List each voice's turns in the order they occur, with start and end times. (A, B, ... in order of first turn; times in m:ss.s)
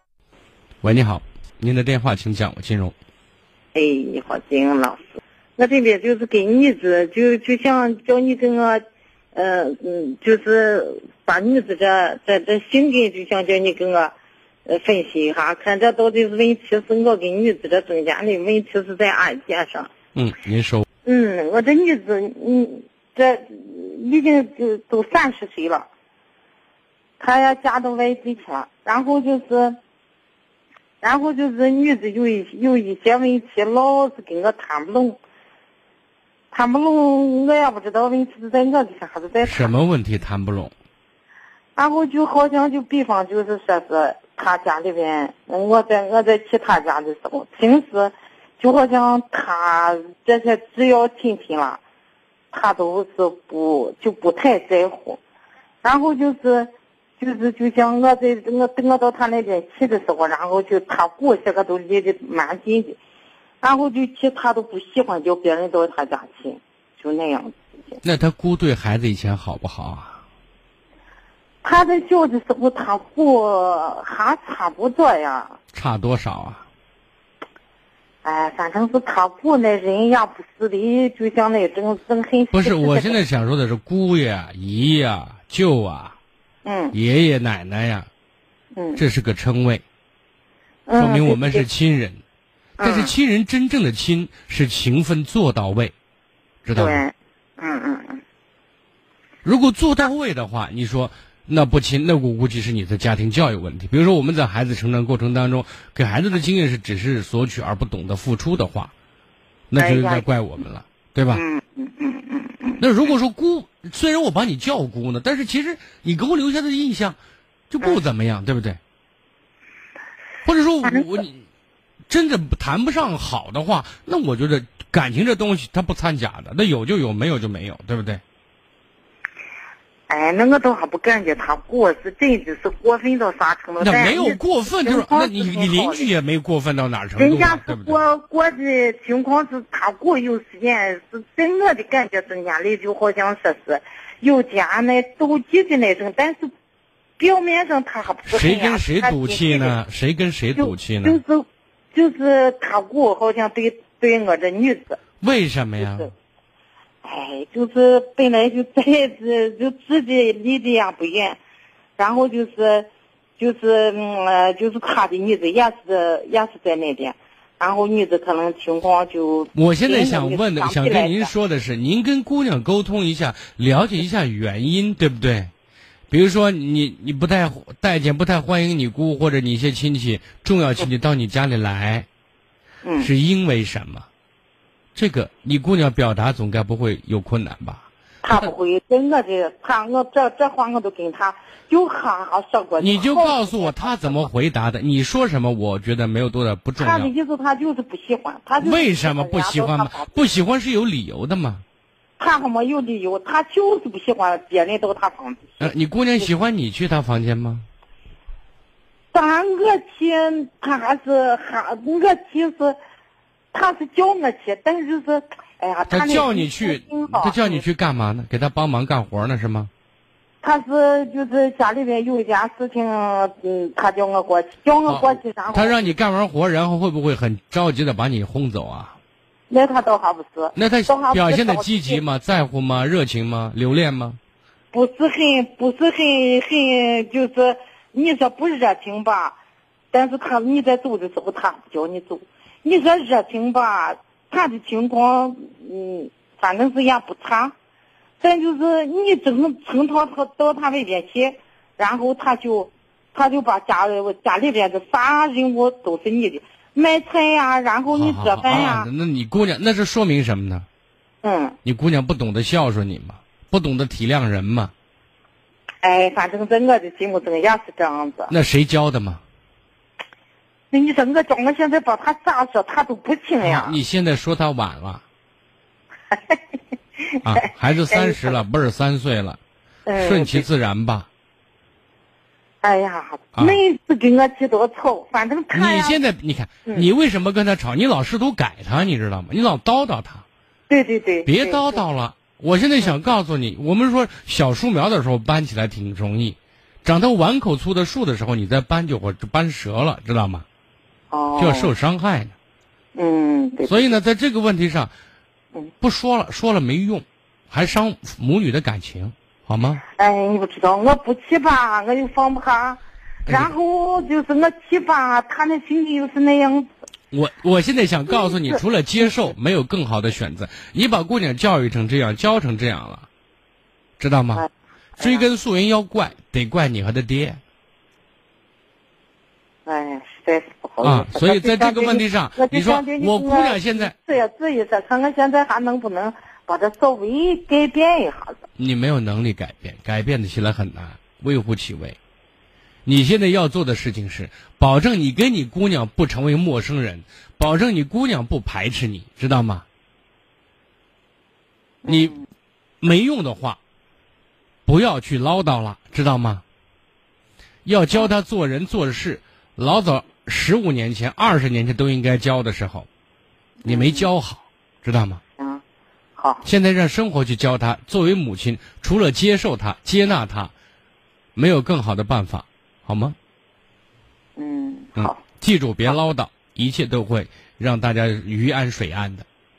0:00.8-0:02.9 A
0:03.7-0:08.8 B
0:09.4-0:14.1 B
0:14.7-0:19.9 B
0:20.2-0:20.9 A
0:21.0-0:25.9 B
0:27.2-0:29.8 B
0:31.0-0:35.2 B
0:36.5-0:39.7 B
0:39.4-0:40.7 A
0:41.8-0:51.8 B
0:52.5-0:55.2 B
0:55.8-1:03.0 B
1:03.6-1:08.0 B
1:08.0-1:10.2 A
1:11.6-1:15.6 B
1:15.7-1:16.6 A
1:18.2-1:23.2 B
1:22.5-1:26.2 A
1:26.6-1:27.0 B
1:26.9-1:28.1 A
1:28.8-1:29.0 B
1:29.0-1:29.8 A
1:30.9-1:31.7 B
1:31.0-1:32.2 A
1:32.8-1:33.1 B
1:32.8-1:35.9 A
1:36.6-1:37.0 A
1:36.8-1:38.2 B
1:39.4-1:48.9 A
1:49.7-1:51.4 A
1:49.8-1:50.3 B
1:51.3-1:52.8 B
1:52.8-1:57.2 A
1:57.7-1:58.8 A
2:00.4-2:01.4 A
2:02.1-2:08.2 A
2:10.1-2:16.1 B
2:13.8-2:18.0 A
2:17.2-2:26.5 B
2:27.2-2:29.8 B
2:28.2-2:31.2 A
2:30.6-2:35.0 B
2:35.2-2:36.1 A
2:35.8-2:36.1 B
2:37.0-2:41.4 B
2:42.0-2:51.3 B
2:49.5-2:55.5 A
2:56.1-3:02.1 A
3:02.8-3:03.1 B
3:03.0-3:04.1 A
3:05.0-3:08.5 A
3:08.2-3:14.2 B
3:12.8-3:17.1 A
3:16.8-3:20.3 B
3:18.6-3:21.6 A
3:22.2-3:26.3 B
3:25.6-3:27.7 A
3:29.1-3:32.8 B
3:33.5-3:37.6 B
3:35.9-3:39.7 A
3:40.4-3:46.0 B
3:44.9-3:49.0 A
3:49.5-3:52.0 B
3:50.6-3:54.2 A
3:54.7-3:59.4 B
3:59.9-4:07.6 B
4:08.2-4:18.9 B
4:17.9-4:20.7 A
4:21.2-4:21.6 B
4:21.6-4:24.7 A
4:25.8-4:28.3 B
4:28.3-4:29.2 A
4:30.7-4:33.8 B
4:33.4-4:35.0 A
4:37.2-4:39.4 A
4:37.9-4:38.4 B
4:39.9-4:40.5 B
4:40.0-4:41.1 A
4:42.6-4:46.0 B
4:45.5-4:50.2 A
4:50.7-4:51.8 B
4:51.3-5:00.4 A
5:01.1-5:01.7 B
5:01.4-5:02.4 A
5:03.0-5:03.9 B
5:03.7-5:04.9 A
5:05.8-5:09.8 A
5:10.0-5:16.7 B
5:13.3-5:13.5 A
5:17.1-5:23.1 A
5:18.1-5:19.2 B
5:24.0-5:24.5 A
5:24.4-5:25.3 B
5:25.0-5:27.4 A
5:29.7-5:38.4 B
5:30.8-5:33.9 A
5:38.6-5:42.0 A
5:42.8-5:49.6 A
5:51.8-5:52.3 B
5:51.9-5:52.2 A
5:52.8-5:53.6 A
5:54.7-5:56.4 A
5:57.6-6:02.9 A
6:03.6-6:04.1 B
6:03.7-6:05.2 A
6:06.2-6:06.4 B
6:06.4-6:10.5 A
6:11.4-6:13.2 A
6:14.4-6:15.2 B
6:15.0-6:19.3 A